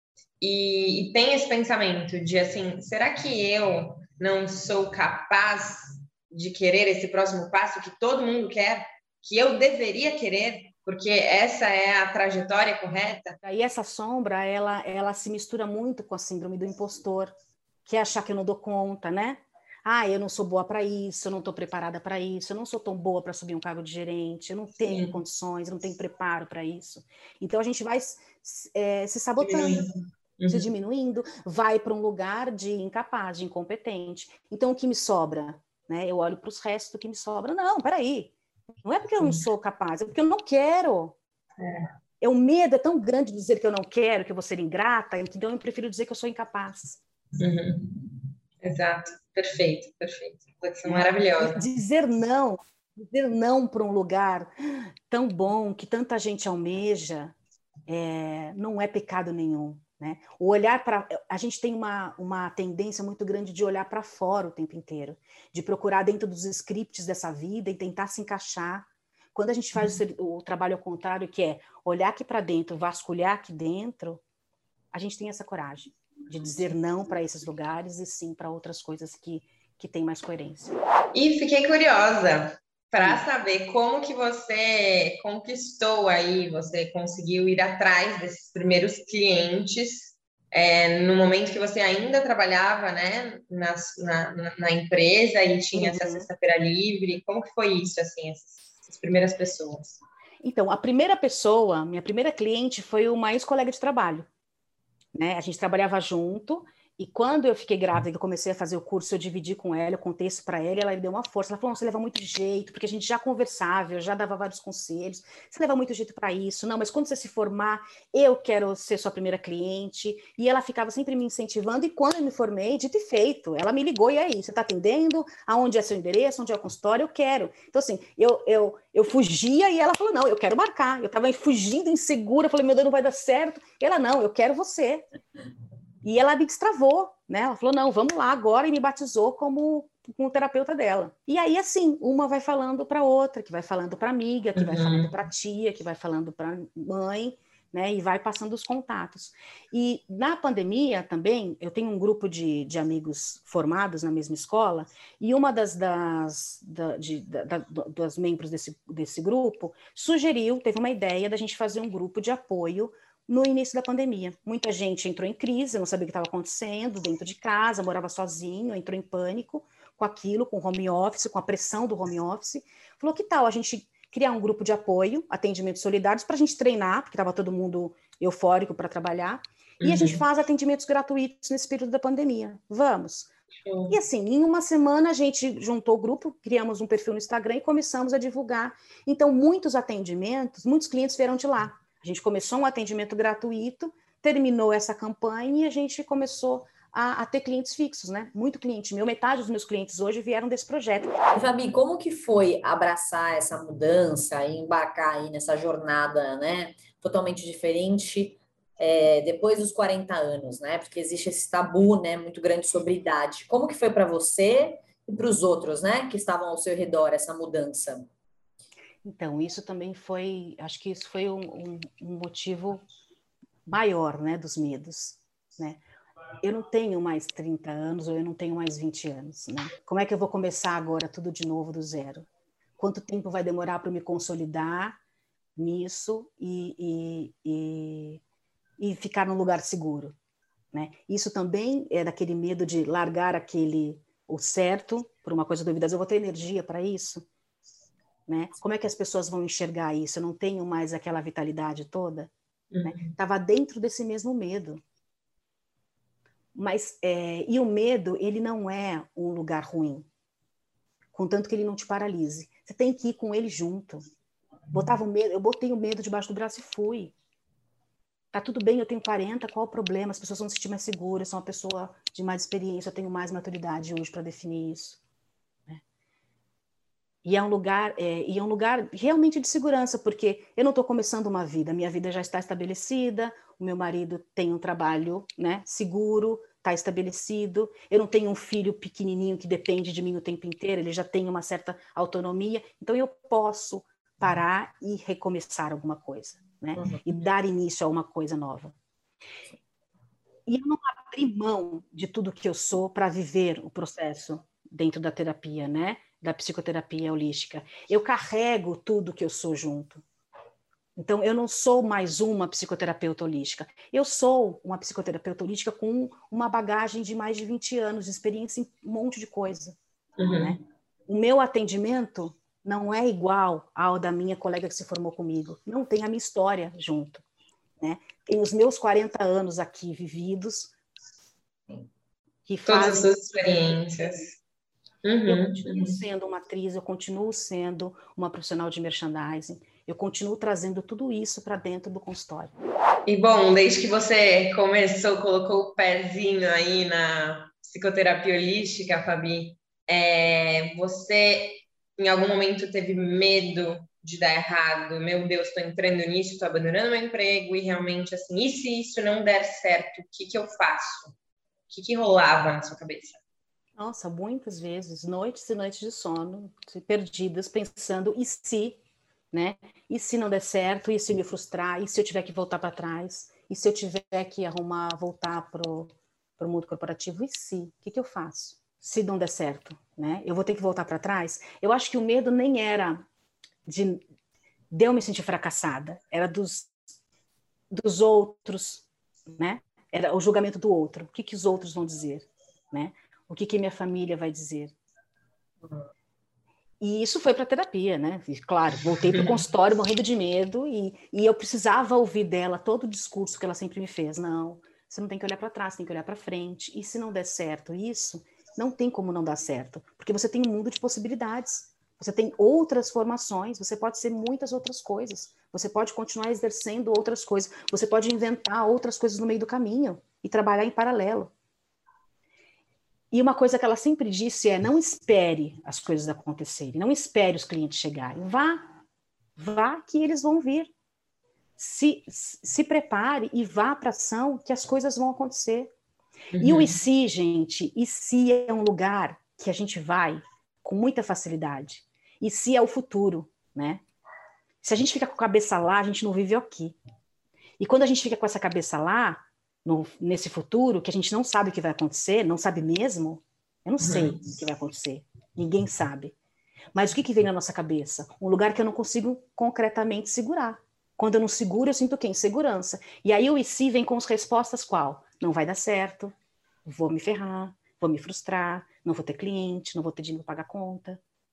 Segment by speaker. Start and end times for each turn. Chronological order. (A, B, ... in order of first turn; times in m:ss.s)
0:00.4-0:13.4 A
0:13.4-0:17.3 B
0:17.8-0:29.9 B
0:24.9-0:25.2 A
0:29.4-0:30.7 A
0:30.5-0:41.2 B
0:41.6-0:41.9 A
0:42.2-0:47.0 B
0:47.4-0:51.6 A
0:50.8-0:57.3 B
0:57.9-1:14.2 B
1:14.9-1:20.8 B
1:21.1-1:40.0 A
1:35.7-1:36.3 B
1:40.4-1:44.3 B
1:45.2-2:15.0 B
2:16.0-3:03.3 B
2:24.6-2:25.1 A
2:59.8-3:00.2 A
3:03.7-3:04.0 A
3:03.9-3:21.2 B
3:21.3-3:38.1 C
3:39.0-3:42.9 B
3:43.7-3:45.8 B
3:46.4-3:52.3 B
3:52.8-3:55.0 B
3:55.6-3:58.2 B
3:58.8-4:00.1 B
4:00.7-4:07.2 B
4:08.3-4:12.3 B
4:12.7-4:13.1 A
4:12.8-4:14.8 B
4:16.6-4:20.1 B
4:21.1-4:24.0 B
4:24.7-4:27.1 B
4:28.3-4:35.0 B
4:37.2-4:58.7 B
4:56.8-4:57.0 C
5:00.5-5:10.0 B
5:11.0-5:19.8 B
5:20.2-5:20.6 A
5:20.3-5:27.2 B
5:27.8-5:30.7 B
5:32.5-5:33.1 B
5:32.7-5:34.4 A
5:35.0-5:36.0 A
5:35.3-5:42.6 B
5:43.1-6:01.1 A
6:01.7-6:03.2 A
6:03.8-6:08.8 B
6:09.3-6:23.0 B
6:23.6-6:24.0 B
6:24.7-6:26.7 B
6:27.7-6:34.7 B
6:36.8-7:01.3 B
7:03.1-7:08.6 B
7:09.4-7:10.7 B
7:11.6-7:15.7 B
7:16.3-7:16.8 A
7:16.4-7:23.8 B
7:24.6-7:26.8 B
7:27.6-7:36.2 B
7:33.8-7:34.2 A
7:36.8-7:46.1 B
7:46.7-7:51.0 B